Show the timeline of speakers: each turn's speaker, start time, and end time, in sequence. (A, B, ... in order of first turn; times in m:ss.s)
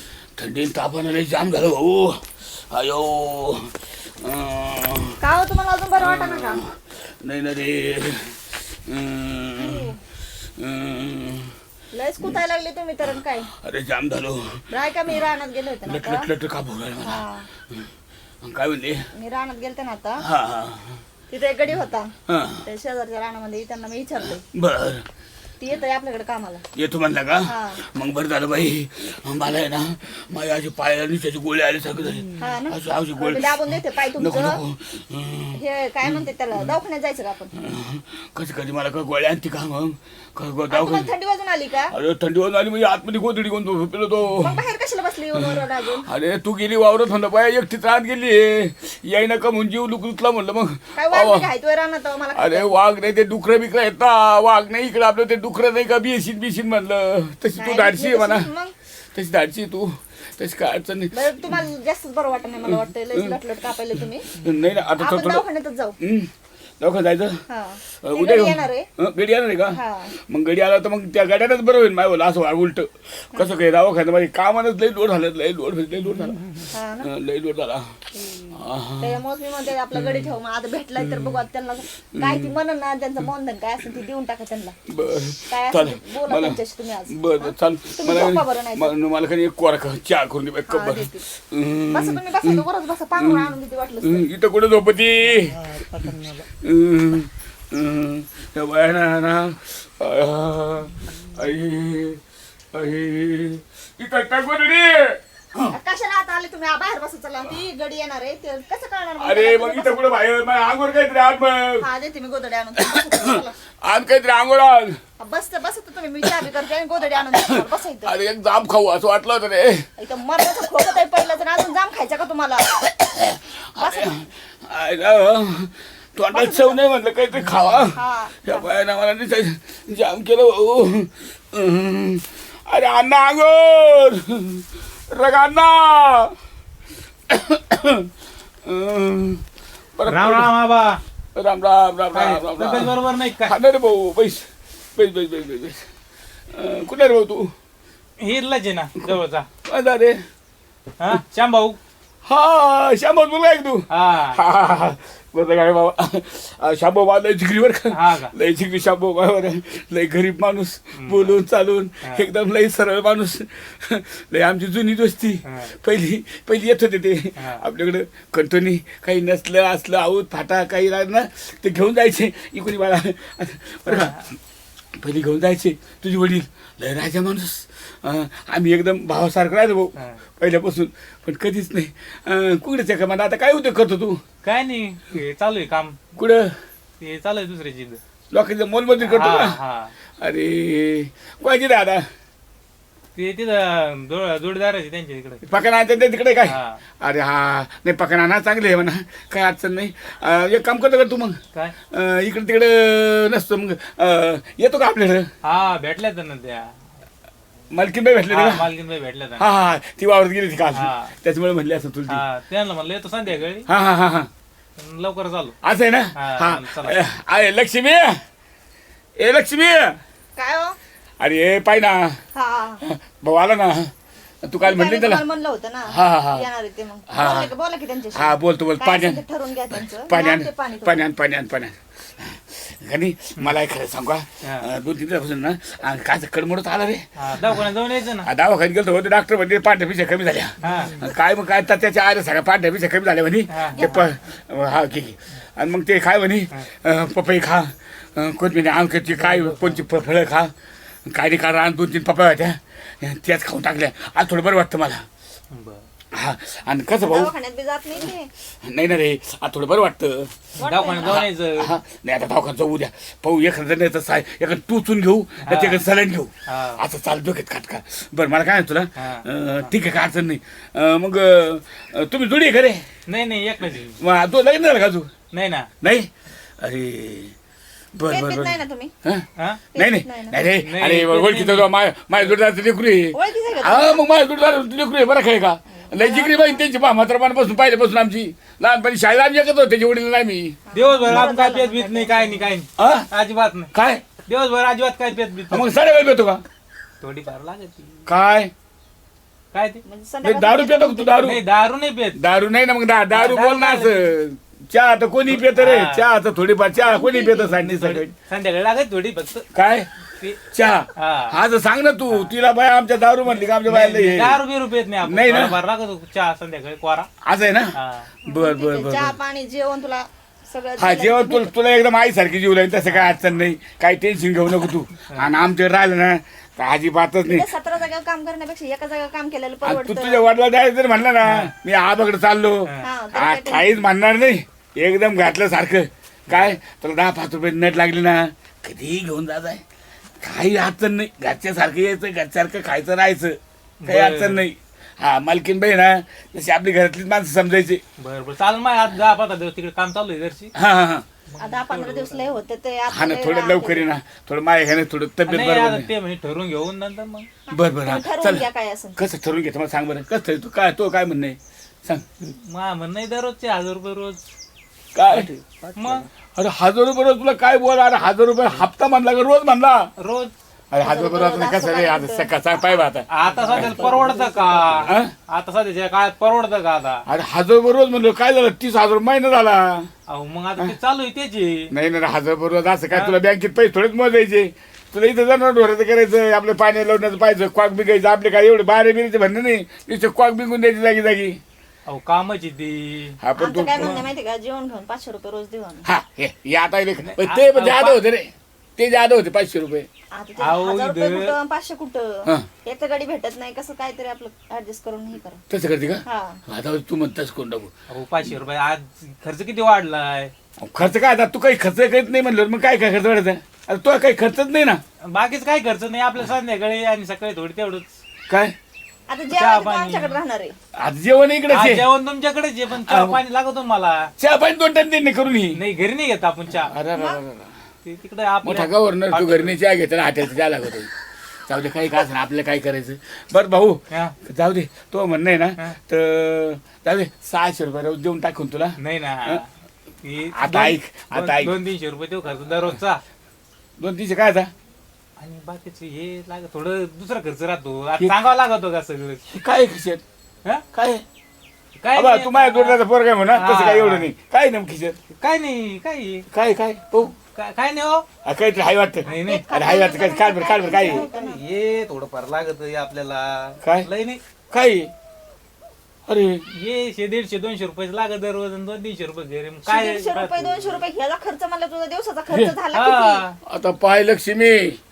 0:00.4-0:05.2 A
0:05.2-0:06.6 B
0:06.0-0:09.9 A
0:09.6-0:10.0 B
0:10.6-0:11.5 A
0:11.9-0:13.5 B
0:13.5-0:14.6 A
0:14.7-0:16.3 B
0:15.8-0:17.9 A
0:17.0-0:17.5 B
0:18.4-0:19.0 A
0:19.2-0:20.2 B
0:20.2-0:21.0 A
0:21.3-0:22.1 B
0:22.3-0:22.6 A
0:22.6-0:24.4 B
0:24.4-0:25.0 A
0:25.6-0:26.6 B
0:26.7-0:36.7 A
0:27.5-0:27.8 B
0:32.0-0:32.5 C
0:32.4-0:34.6 B
0:35.5-0:37.5 B
0:37.6-0:41.1 A
0:40.7-0:41.9 B
0:41.9-0:44.6 A
0:44.4-0:46.1 B
0:45.4-0:51.5 A
0:51.0-0:52.7 B
0:52.4-0:58.5 A
0:57.6-0:58.7 B
0:59.1-1:01.7 A
1:01.1-1:04.3 B
1:02.7-1:03.4 A
1:04.3-1:05.4 A
1:05.0-1:06.0 B
1:06.0-1:07.4 A
1:07.5-1:08.9 B
1:08.0-1:16.5 A
1:09.7-1:10.1 B
1:16.7-1:17.1 B
1:17.0-1:18.0 A
1:18.1-1:24.8 B
1:18.6-1:19.2 A
1:19.9-1:20.3 A
1:21.0-1:21.4 A
1:22.1-1:22.6 A
1:24.9-1:32.6 A
1:25.5-1:28.9 B
1:30.7-1:31.2 B
1:31.9-1:34.3 B
1:33.2-1:42.2 A
1:42.7-1:45.7 A
1:45.7-1:50.0 B
1:49.2-1:51.9 A
1:51.8-1:53.6 B
1:52.8-1:55.0 A
1:55.2-1:58.1 B
1:56.2-1:56.5 A
1:57.3-1:59.9 A
2:00.0-2:02.8 B
2:02.7-2:16.3 A
2:03.8-2:04.2 B
2:06.3-2:06.8 B
2:07.9-2:08.7 B
2:17.3-2:18.1 A
2:18.6-2:19.4 A
2:20.0-2:20.5 A
2:20.1-2:21.0 C
2:21.4-2:25.8 A
2:22.1-2:23.6 C
2:26.5-2:27.5 A
2:28.2-2:29.5 C
2:29.6-2:30.2 A
2:31.0-2:31.8 C
2:32.3-2:54.2 A
2:33.9-2:34.4 C
2:37.9-2:38.3 C
2:41.0-2:41.3 C
2:45.4-2:45.7 C
2:47.4-2:47.6 C
2:53.9-2:54.3 C
2:55.0-3:04.2 A
3:04.4-3:06.0 C
3:06.2-3:06.6 A
3:07.0-3:08.0 C
3:08.3-3:09.6 A
3:09.0-3:09.9 C
3:10.2-3:12.1 A
3:13.2-3:15.4 C
3:15.4-3:21.4 A
3:16.5-3:16.8 C
3:21.9-3:25.3 A
3:25.4-3:26.8 C
3:27.7-3:28.7 A
3:28.3-3:29.5 C
3:29.4-3:32.2 A
3:30.8-3:31.1 C
3:32.1-3:33.7 C
3:33.7-3:34.3 A
3:34.8-3:35.6 C
3:35.6-3:38.2 A
3:36.2-3:37.0 C
3:39.2-3:40.0 A
3:40.4-3:40.8 B
3:41.2-3:42.2 A
3:42.4-3:42.8 B
3:42.8-3:43.9 A
3:44.4-3:45.2 A
3:44.6-3:51.1 B
3:45.9-3:46.5 A
3:47.1-3:47.5 A
3:48.1-3:57.7 A
3:54.4-3:54.7 C
3:57.2-3:58.3 C
3:58.2-4:10.5 A
4:00.6-4:01.0 C
4:03.5-4:04.1 C
4:03.8-4:04.0 B
4:11.0-4:15.0 A
4:15.5-4:15.8 C
4:16.1-4:17.3 A
4:17.0-4:18.3 B
4:18.6-4:20.5 A
4:20.6-4:21.3 B
4:20.6-4:21.7 C
4:21.0-4:32.8 A
4:25.4-4:25.8 C
4:26.5-4:26.8 C
4:29.0-4:29.3 C
4:33.1-4:34.0 C
4:34.0-4:35.1 A
4:35.3-4:35.7 C
4:35.8-4:36.1 A
4:36.6-4:37.3 A
4:38.0-4:50.6 A
4:38.1-4:38.9 B
4:39.8-4:40.4 B
4:40.6-4:41.7 C
4:43.1-4:44.0 B
4:45.7-4:46.6 B
4:50.7-4:52.5 B
4:50.7-4:53.7 C
4:52.8-4:53.1 A
4:53.7-4:54.0 A
4:54.3-4:55.7 C
4:55.5-4:56.4 A
4:57.0-4:58.1 C
4:58.1-4:58.5 A
4:59.5-4:59.8 C
4:59.8-5:01.4 B
5:00.2-5:01.5 A
5:01.2-5:02.2 C
5:02.2-5:08.1 A
5:03.1-5:04.0 C
5:05.3-5:06.0 C
5:06.8-5:07.4 B
5:07.0-5:09.5 C
5:09.5-5:09.9 A
5:10.4-5:14.4 A
5:11.0-5:11.4 C
5:13.6-5:17.1 C
5:15.0-5:15.6 A
5:17.2-5:19.2 A
5:17.8-5:18.1 C
5:18.3-5:21.5 B
5:20.8-5:27.5 A
5:27.3-5:30.2 B
5:29.6-5:39.6 A
5:31.2-5:31.5 C
5:32.8-5:33.7 B
5:40.2-5:47.8 A
5:43.8-5:44.4 C
5:48.0-5:50.5 C
5:50.6-5:51.1 A
5:51.3-5:52.3 C
5:51.4-5:53.9 B
5:52.9-5:55.9 A
5:55.3-5:57.3 C
5:57.5-5:59.0 B
5:57.5-6:02.1 A
6:02.2-6:04.2 C
6:05.0-6:05.3 A
6:05.1-6:06.1 C
6:06.4-6:09.9 A
6:10.0-6:10.3 C
6:10.7-6:14.0 A
6:10.8-6:12.3 B
6:13.1-6:17.0 C
6:14.8-6:15.1 A
6:17.1-6:19.9 A
6:20.1-6:21.7 C
6:21.7-6:31.4 A
6:22.9-6:23.2 C
6:31.9-6:33.2 C
6:33.2-6:34.1 A
6:33.4-6:35.9 B
6:35.8-6:39.9 A
6:37.0-6:38.0 C
6:40.2-6:45.4 B
6:40.4-6:41.4 C
6:45.5-6:47.7 A
6:46.1-6:46.4 B
6:47.9-6:50.3 C
6:50.6-6:54.8 A
6:55.1-6:57.9 C
6:58.3-6:58.5 A
6:59.1-7:00.6 B
6:59.3-7:00.2 C
7:00.8-7:01.9 A
7:01.5-7:04.1 C
7:02.8-7:03.2 A
7:04.2-7:05.6 A
7:05.5-7:06.7 C
7:06.7-7:07.5 A
7:07.8-7:09.5 C
7:08.4-7:10.9 A
7:11.5-7:19.4 A
7:18.8-7:19.5 C
7:20.0-7:23.0 C
7:20.4-7:21.6 A
7:23.8-7:24.5 A
7:25.2-7:29.2 C
7:29.3-7:30.0 A
7:30.7-7:31.0 A
7:31.8-7:32.8 C
7:31.9-7:35.0 A
7:33.3-7:34.1 C
7:35.2-7:36.2 C
7:36.3-7:37.1 A
7:37.2-7:38.0 C
7:38.2-7:41.0 A
7:39.1-7:39.4 C
7:39.1-7:41.4 B
7:40.6-7:44.2 C
7:43.6-7:43.9 A
7:44.5-7:44.9 A
7:46.1-7:46.4 A
7:46.5-7:50.6 C
7:49.7-7:53.2 B
7:52.3-7:52.6 A
7:52.7-7:53.4 C
7:53.4-7:54.8 A